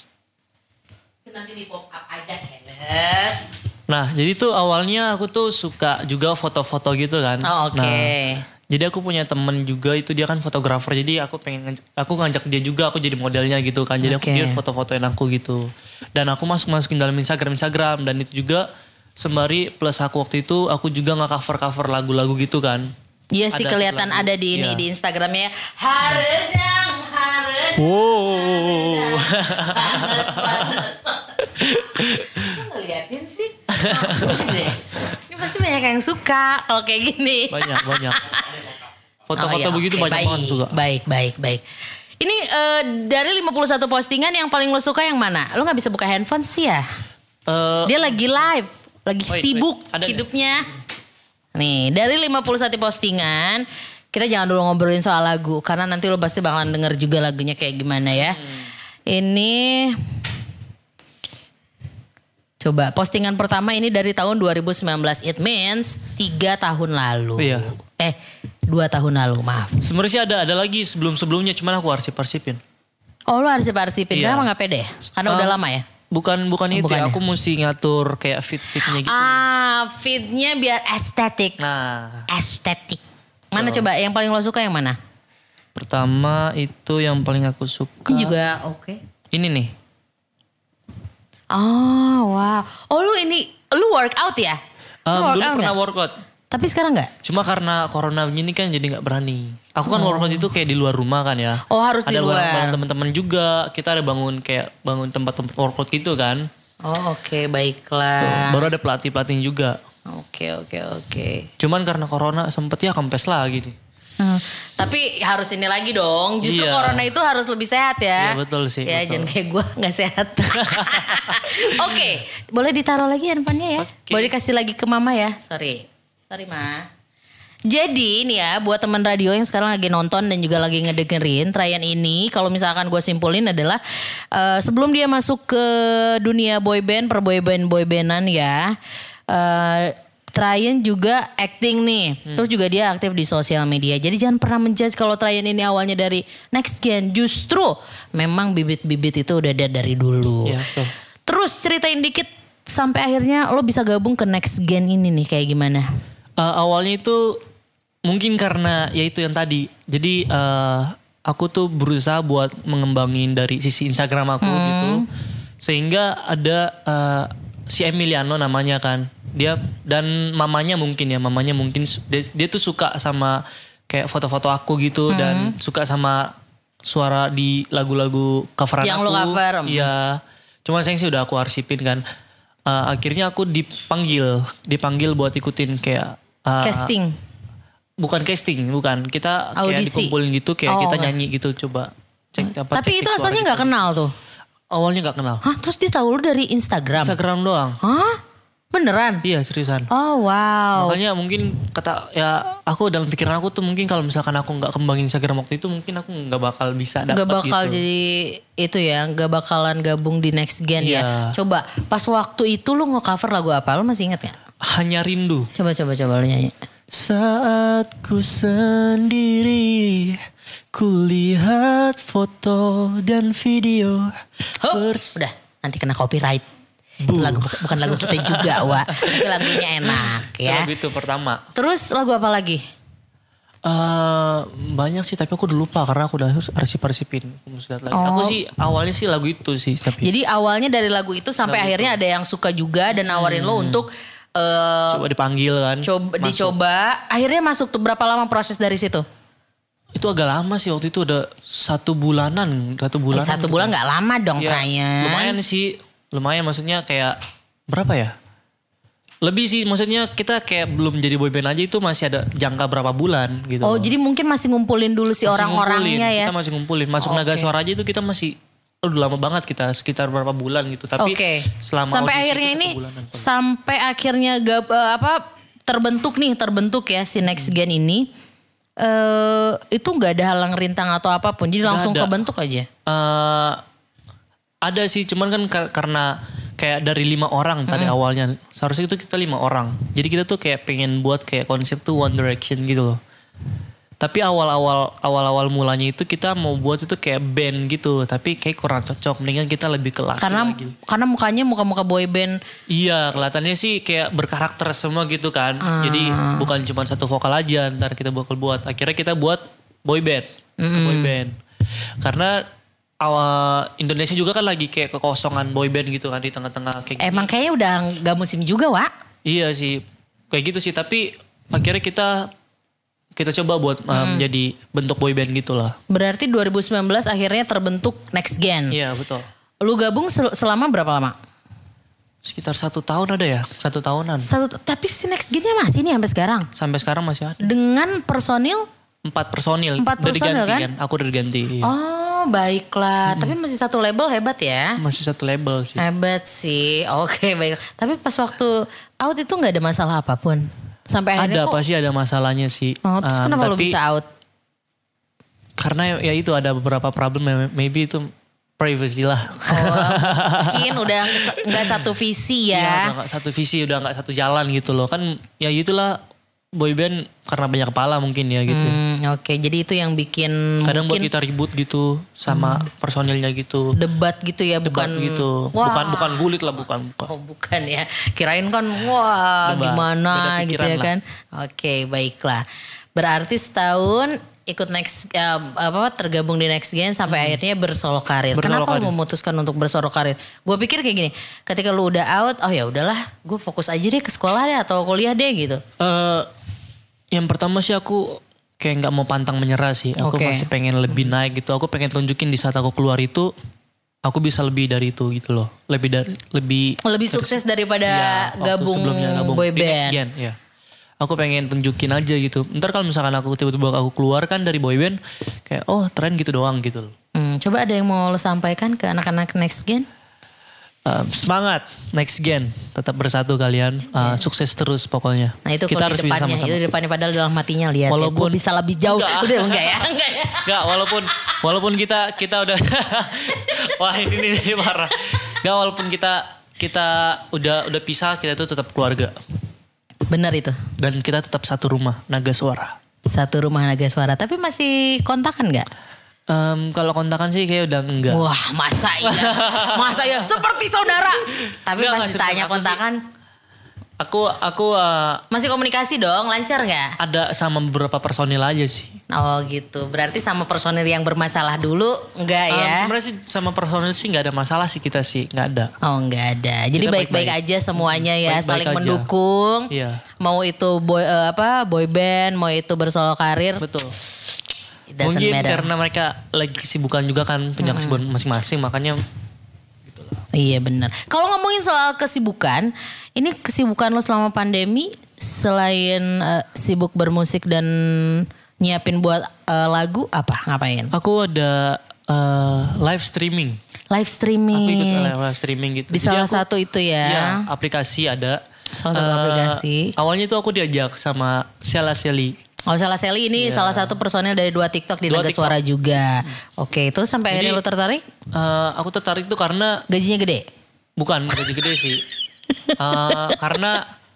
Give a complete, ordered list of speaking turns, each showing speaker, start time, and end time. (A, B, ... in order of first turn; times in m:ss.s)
0:01.2-0:03.7 A
0:03.9-0:08.1 B
0:07.4-0:08.4 A
0:08.7-0:18.7 B
0:14.0-0:14.6 A
0:19.2-0:22.9 B
0:23.3-0:38.7 A
0:23.5-0:24.8 B
0:27.8-0:30.8 B
0:31.5-0:32.6 B
0:33.7-0:34.7 B
0:37.5-0:38.4 B
0:39.3-0:40.8 B
0:39.4-0:41.6 A
0:42.2-0:46.8 A
0:47.5-0:48.1 B
0:47.8-0:50.7 A
0:49.3-0:50.2 B
0:51.5-0:58.4 A
0:58.3-0:58.7 B
0:59.1-1:00.0 A
1:02.6-1:09.8 A
1:07.4-1:07.7 B
1:09.8-1:12.6 B
1:13.3-1:15.9 A
1:14.1-1:14.5 B
1:15.2-1:15.6 B
1:16.1-1:19.4 B
1:16.7-1:17.2 A
1:18.8-1:21.6 A
1:21.6-1:22.3 B
1:22.3-1:25.0 A
1:23.6-1:23.8 B
1:25.7-1:28.3 B
1:28.1-1:29.0 A
1:29.3-1:29.7 B
1:31.5-1:35.7 A
1:35.1-1:36.2 B
1:36.5-1:37.1 A
1:37.2-1:46.5 B
1:39.9-1:40.5 A
1:41.7-1:42.8 A
1:46.8-1:48.7 A
1:48.2-1:49.8 B
1:50.0-1:51.5 A
1:51.6-1:53.8 B
1:54.2-2:06.9 A
1:56.4-1:57.1 B
1:58.2-1:59.3 B
2:00.5-2:02.0 B
2:03.8-2:04.3 B
2:07.6-2:18.8 A
2:19.3-2:30.7 A
2:30.4-2:30.9 B
2:31.2-2:35.8 A
2:36.4-2:37.4 B
2:38.0-2:45.0 B
2:44.4-2:45.0 A
2:45.6-2:56.3 B
2:55.1-2:55.6 A
2:56.8-3:02.0 B
2:58.8-2:59.9 A
3:02.7-3:06.9 B
3:06.6-3:07.1 A
3:08.0-3:13.7 B
3:09.6-3:10.1 A
3:10.6-3:11.1 A
3:12.4-3:14.1 A
3:14.7-3:15.4 B
3:15.4-3:17.2 A
3:17.0-3:17.8 B
3:17.8-3:18.2 A
3:18.7-3:19.2 A
3:19.2-3:19.9 B
3:19.9-3:21.0 A
3:20.8-3:27.8 B
3:27.1-3:34.4 A
3:30.8-3:31.3 B
3:34.6-3:35.5 B
3:35.5-3:36.5 A
3:36.9-3:45.2 B
3:44.6-3:46.4 A
3:47.0-3:51.4 B
3:47.1-3:50.7 A
3:51.5-3:52.6 A
3:53.6-4:00.1 B
3:57.9-3:58.4 A
4:00.0-4:05.0 A
4:01.4-4:02.0 B
4:03.0-4:03.8 B
4:04.9-4:06.5 B
4:05.8-4:09.0 A
4:09.9-4:13.7 B
4:13.1-4:15.4 A
4:14.4-4:18.1 B
4:19.2-4:23.9 B
4:23.6-4:26.3 A
4:25.2-4:33.2 B
4:27.0-4:27.5 A
4:31.0-4:38.1 A
4:38.8-4:42.7 A
4:41.6-4:42.1 B
4:42.8-4:43.6 B
4:44.6-4:53.0 B
4:47.7-4:48.0 A
4:54.0-5:00.8 B
5:00.2-5:02.4 A
5:02.7-5:11.3 B
5:05.6-5:06.5 A
5:10.6-5:11.1 A
5:12.0-5:12.4 B
5:13.0-5:17.3 B
5:17.0-5:18.9 A
5:19.2-5:22.3 B
5:23.2-5:25.8 B
5:23.9-5:24.3 A
5:25.9-5:28.8 A
5:28.7-5:29.2 B
5:29.6-5:31.2 A
5:32.2-5:34.3 B
5:34.2-5:36.5 A
5:36.5-5:37.5 B
5:37.4-5:38.7 A
5:39.0-5:41.7 B
5:39.8-5:40.7 A
5:41.6-5:44.8 A
5:43.1-5:43.3 B
5:44.8-5:45.8 B
5:45.8-5:51.6 A
5:51.2-5:53.8 B
5:52.8-5:54.1 A
5:55.6-6:01.8 B
5:59.4-6:02.9 A
6:02.5-6:06.0 B
6:06.5-6:08.8 B
6:08.5-6:11.1 A
6:10.6-6:13.8 B
6:12.3-6:12.6 A
6:13.8-6:16.3 A
6:14.6-6:17.1 B
6:17.1-6:35.6 A
6:19.4-6:20.9 B
6:27.1-6:27.4 B
6:28.3-6:28.9 B
6:35.8-6:36.3 B
6:37.1-6:43.3 B
6:40.0-6:41.1 A
6:44.0-6:50.4 B
6:46.8-6:50.0 A
6:51.0-6:56.9 B
6:57.1-6:59.9 A
7:00.8-7:06.6 B
7:04.0-7:04.2 A
7:05.4-7:10.9 A
7:07.9-7:09.9 B
7:10.4-7:19.2 B
7:20.1-7:20.6 A
7:20.8-7:22.8 B
7:23.0-7:25.7 A
7:26.3-7:28.3 B
7:28.0-7:33.0 A
7:29.0-7:30.2 B
7:31.4-7:32.8 B
7:34.0-7:35.2 B
7:35.3-7:37.0 A
7:37.0-7:39.0 B
7:39.1-7:42.9 A
7:42.5-7:45.7 B
7:45.8-7:53.6 A
7:46.7-7:49.1 B
7:49.7-7:50.0 B
7:53.6-7:54.0 B
7:54.9-7:55.7 A
7:55.0-7:59.0 B
7:57.6-7:58.0 A
7:59.9-8:00.2 B
8:00.3-8:10.9 A
8:10.9-8:13.6 B
8:13.9-8:15.1 A
8:14.5-8:16.4 B
8:15.9-8:17.4 A
8:17.0-8:18.4 B
8:18.8-8:19.9 A
8:18.9-8:22.4 B
8:22.7-8:28.0 A
8:23.4-8:24.0 B
8:25.1-8:25.6 B
8:27.3-8:27.6 B
8:28.3-8:29.8 B
8:29.9-8:30.5 A
8:31.0-8:32.0 B
8:32.6-8:33.4 A
8:32.8-8:33.9 B